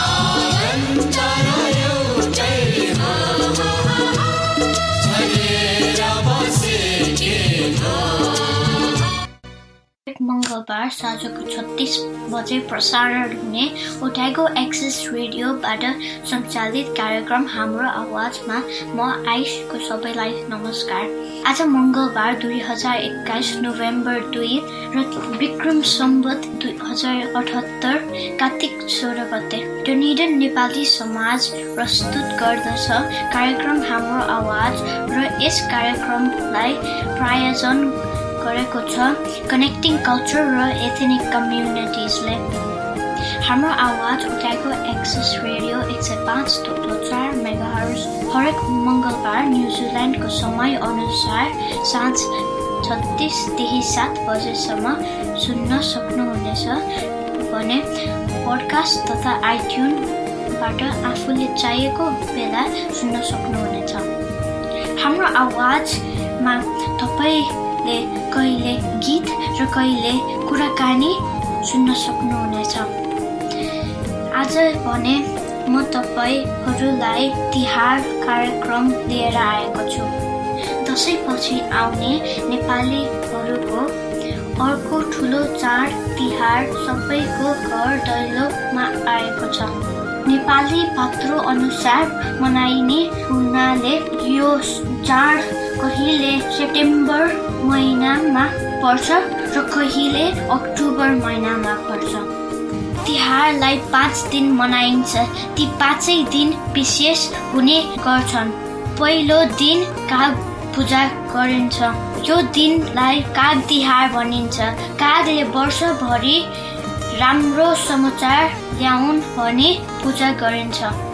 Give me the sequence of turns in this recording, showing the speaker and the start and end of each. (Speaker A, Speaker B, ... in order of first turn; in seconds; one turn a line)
Speaker A: 10.1-42.6
Speaker A: 43.4-52.3
Speaker A: 52.8-56.8
Speaker A: 57.4-64.1
Speaker A: 65.0-72.9
Speaker A: 74.3-80.1
Speaker A: 80.8-83.9
Speaker A: 84.6-89.7
Speaker A: 90.2-102.3
Speaker A: 103.0-116.5
Speaker A: 117.2-120.9